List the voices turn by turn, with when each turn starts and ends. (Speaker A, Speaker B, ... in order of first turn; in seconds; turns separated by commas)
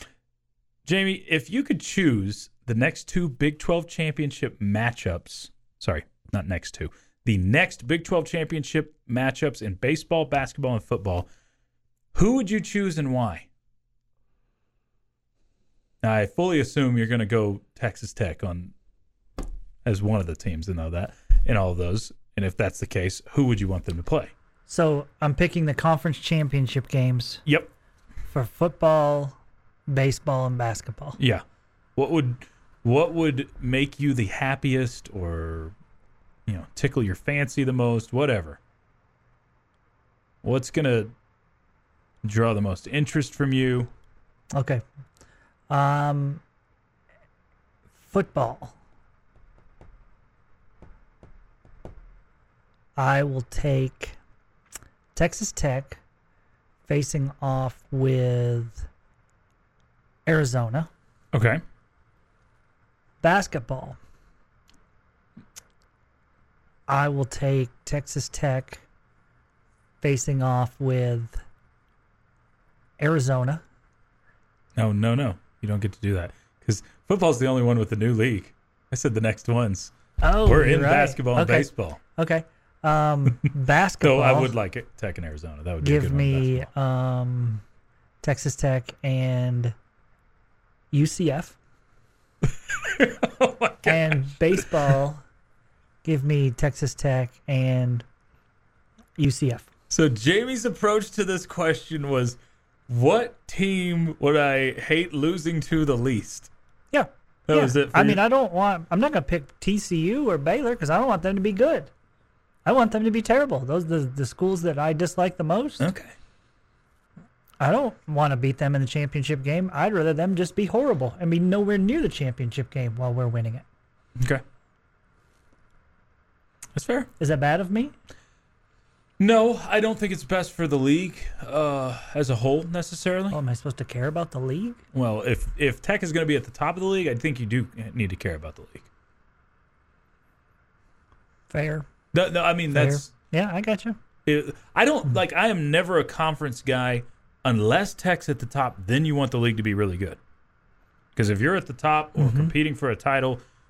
Speaker A: 0.8-11.3, Speaker A: 12.1-13.5, Speaker A: 16.0-18.7, Speaker A: 19.8-24.3, Speaker B: 24.7-27.4, Speaker A: 27.4-27.7, Speaker B: 28.3-29.4, Speaker B: 29.9-31.2, Speaker A: 31.2-31.4, Speaker A: 31.9-35.7, Speaker A: 36.5-38.6, Speaker A: 40.4-41.1, Speaker A: 42.2-43.9, Speaker B: 44.5-44.8, Speaker B: 45.7-46.4, Speaker B: 48.1-48.7, Speaker B: 53.0-54.2, Speaker B: 55.1-56.0, Speaker B: 56.9-58.8, Speaker B: 60.2-60.9, Speaker A: 61.3-61.6, Speaker B: 63.2-64.0, Speaker B: 66.9-68.8, Speaker B: 70.0-71.4, Speaker B: 73.0-73.6, Speaker A: 74.8-82.0, Speaker B: 80.2-84.5, Speaker A: 84.0-86.7, Speaker B: 85.8-87.6, Speaker B: 88.2-89.7, Speaker B: 90.9-91.5, Speaker A: 92.7-94.7, Speaker B: 93.8-95.2, Speaker B: 96.0-98.0, Speaker B: 99.2-99.7, Speaker A: 99.9-102.4, Speaker A: 102.9-106.5, Speaker B: 106.9-111.9, Speaker A: 107.5-108.2, Speaker B: 112.6-115.9, Speaker A: 115.8-116.1, Speaker B: 117.6-123.6, Speaker A: 126.7-127.1, Speaker B: 127.2-127.9, Speaker A: 129.2-133.4, Speaker B: 133.3-134.8, Speaker A: 134.9-138.9, Speaker B: 141.5-141.8, Speaker A: 142.1-143.1, Speaker B: 142.7-144.0, Speaker A: 144.2-150.2, Speaker A: 151.2-153.4, Speaker B: 152.2-152.5